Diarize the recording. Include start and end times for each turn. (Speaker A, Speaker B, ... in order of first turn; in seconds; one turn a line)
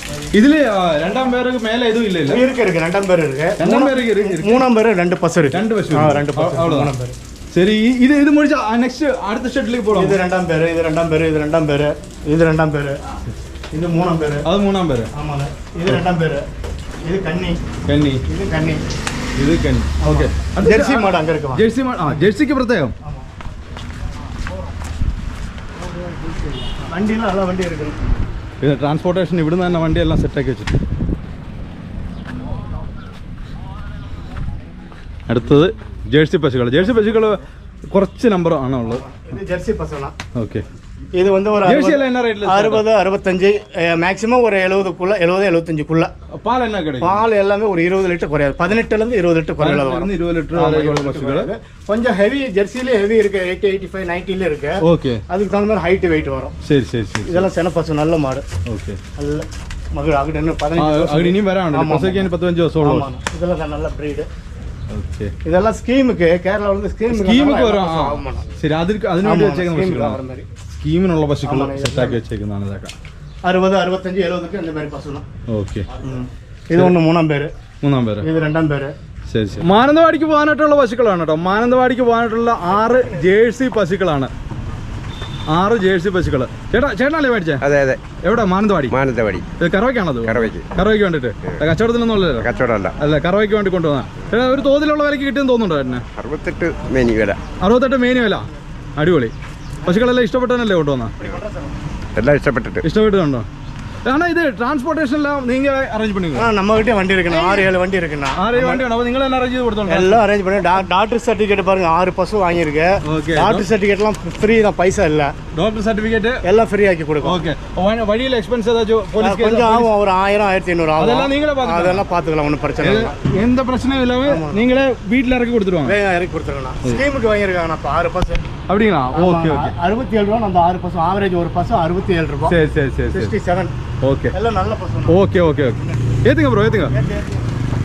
Speaker A: 0.3-2.4
Speaker B: 2.3-7.2
Speaker A: 3.6-4.7
Speaker A: 5.5-6.9
Speaker A: 7.5-10.2
Speaker B: 9.9-13.0
Speaker B: 13.7-14.5
Speaker A: 14.4-15.1
Speaker B: 15.1-16.5
Speaker B: 17.1-17.6
Speaker A: 17.9-18.2
Speaker B: 18.3-18.8
Speaker A: 19.4-22.9
Speaker B: 20.0-22.2
Speaker B: 25.8-28.0
Speaker A: 28.6-30.8
Speaker A: 35.3-37.4
Speaker A: 37.9-39.1
Speaker B: 38.8-40.1
Speaker A: 40.4-40.6
Speaker B: 41.1-46.1
Speaker A: 41.6-42.9
Speaker A: 46.3-47.2
Speaker B: 47.0-56.6
Speaker A: 49.6-51.5
Speaker A: 54.8-55.2
Speaker A: 56.6-57.5
Speaker B: 57.3-58.5
Speaker A: 58.7-59.0
Speaker B: 59.2-64.3
Speaker A: 60.8-63.1
Speaker A: 64.9-65.3
Speaker B: 65.4-68.5
Speaker A: 67.1-70.2
Speaker B: 69.2-70.5
Speaker A: 70.8-73.0
Speaker B: 71.4-72.2
Speaker B: 73.4-75.2
Speaker A: 75.5-75.9
Speaker B: 76.0-77.5
Speaker A: 77.8-78.3
Speaker B: 78.2-78.9
Speaker A: 79.3-84.3
Speaker A: 85.5-87.6
Speaker C: 87.6-88.0
Speaker A: 88.2-89.0
Speaker C: 88.9-89.5
Speaker A: 89.6-96.1
Speaker C: 90.3-90.7
Speaker C: 92.4-93.0
Speaker C: 96.2-97.4
Speaker A: 97.6-99.3
Speaker B: 99.8-100.1
Speaker A: 99.8-101.2
Speaker B: 101.2-101.8
Speaker C: 102.2-102.8
Speaker A: 102.8-103.5
Speaker A: 104.0-106.5
Speaker B: 106.3-108.9
Speaker A: 107.3-107.7
Speaker A: 108.4-110.2
Speaker B: 109.9-115.3
Speaker A: 113.0-113.7
Speaker A: 115.5-116.4
Speaker B: 116.4-117.5
Speaker A: 117.2-119.9
Speaker B: 119.2-123.2
Speaker A: 121.0-122.0
Speaker A: 122.8-126.0
Speaker B: 124.2-124.7
Speaker B: 125.8-128.5
Speaker A: 128.7-129.8
Speaker B: 129.1-132.6
Speaker A: 132.5-133.3
Speaker B: 133.1-133.7
Speaker A: 134.0-134.3
Speaker B: 134.3-136.2
Speaker A: 135.1-136.9
Speaker B: 136.9-137.4